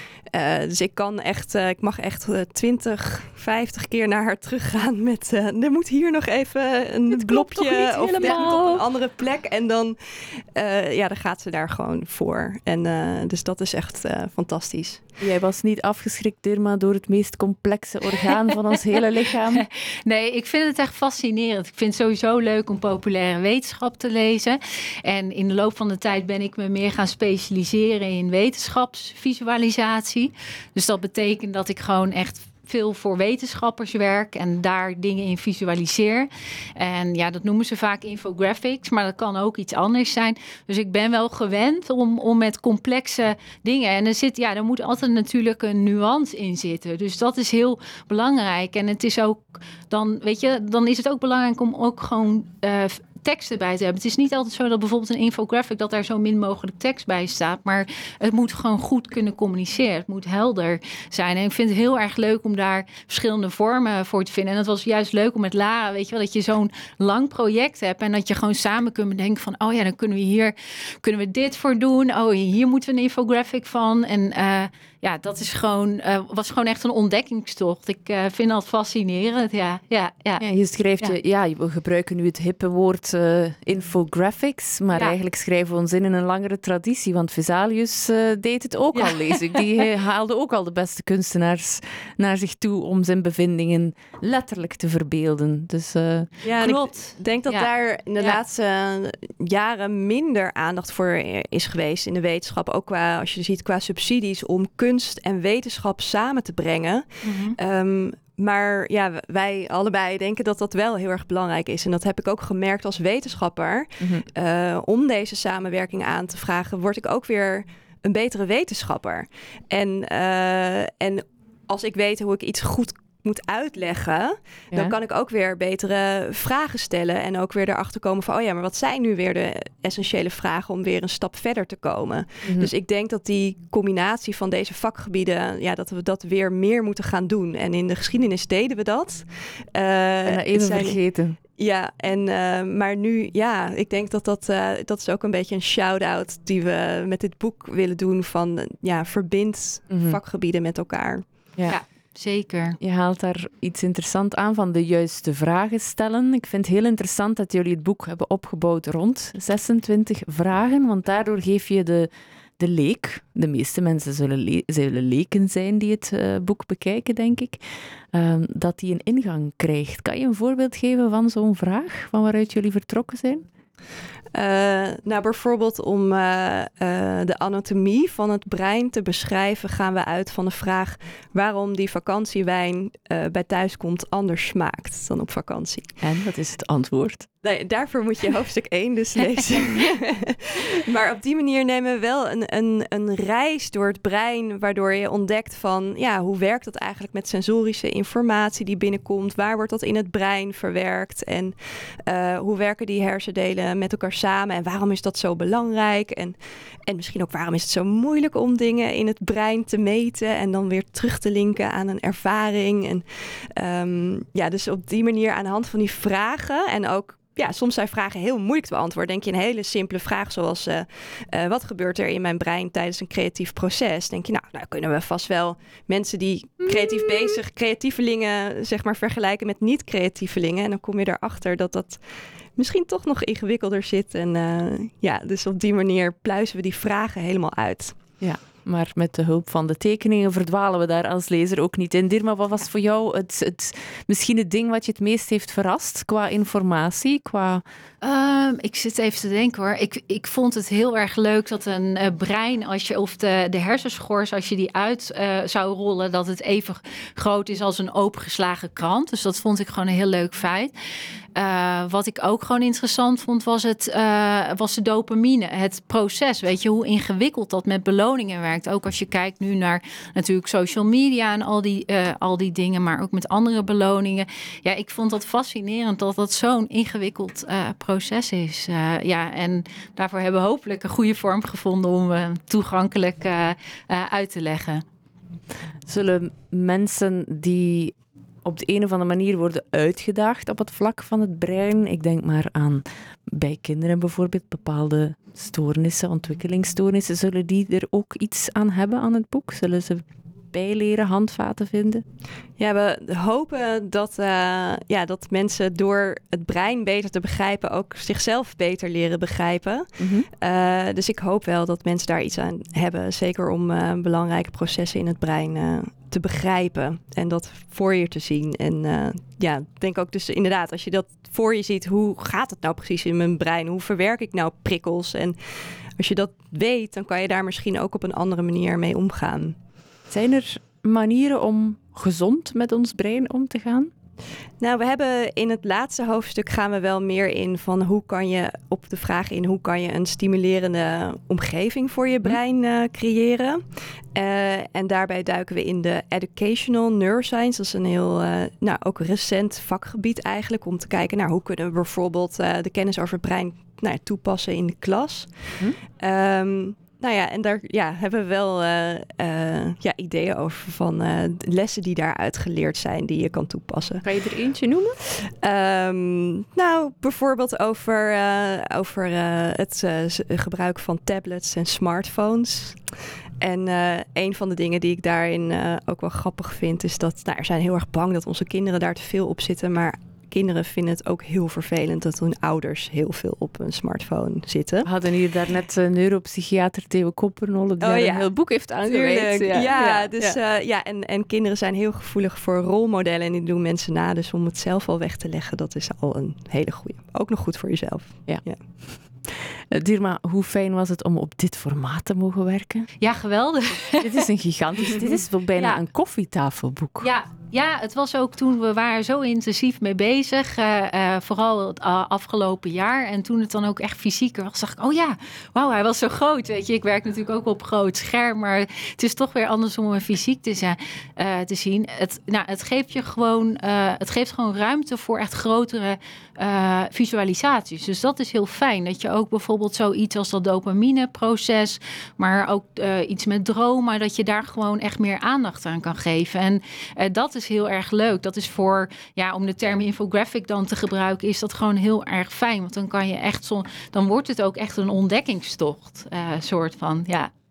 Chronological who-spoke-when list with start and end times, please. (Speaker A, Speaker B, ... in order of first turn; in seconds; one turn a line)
Speaker A: 0.3-15.1
Speaker B: 7.1-8.8
Speaker C: 8.2-8.6
Speaker B: 15.2-19.6
Speaker C: 18.5-18.7
Speaker C: 19.5-80.4
Speaker B: 80.4-96.3
Speaker C: 84.9-85.2
Speaker C: 88.9-89.7
Speaker A: 96.4-141.0
Speaker C: 96.6-98.4
Speaker C: 107.2-107.5
Speaker B: 114.0-114.2
Speaker B: 132.4-132.7
Speaker B: 140.3-141.4
Speaker A: 141.5-151.8
Speaker B: 149.9-150.2
Speaker C: 151.7-152.8
Speaker B: 152.8-167.6
Speaker B: 168.1-173.4
Speaker A: 174.3-186.0
Speaker B: 186.0-187.3
Speaker A: 187.4-213.0
Speaker A: 213.6-232.0
Speaker A: 232.6-238.0
Speaker B: 238.2-247.6
Speaker C: 248.0-260.7
Speaker C: 261.3-284.8
Speaker B: 285.9-302.0
Speaker A: 302.6-325.4
Speaker B: 310.0-310.3
Speaker A: 326.0-329.5
Speaker B: 330.1-333.9
Speaker A: 334.6-343.6
Speaker A: 344.1-355.4
Speaker A: 355.9-364.0
Speaker B: 364.0-365.0
Speaker A: 365.1-372.8
Speaker A: 373.4-384.9
Speaker B: 384.8-390.4
Speaker A: 387.8-388.3
Speaker A: 388.8-398.6
Speaker C: 389.7-390.1
Speaker B: 399.7-402.9
Speaker C: 403.0-404.2
Speaker B: 404.0-407.1
Speaker C: 405.6-405.8
Speaker C: 407.0-447.3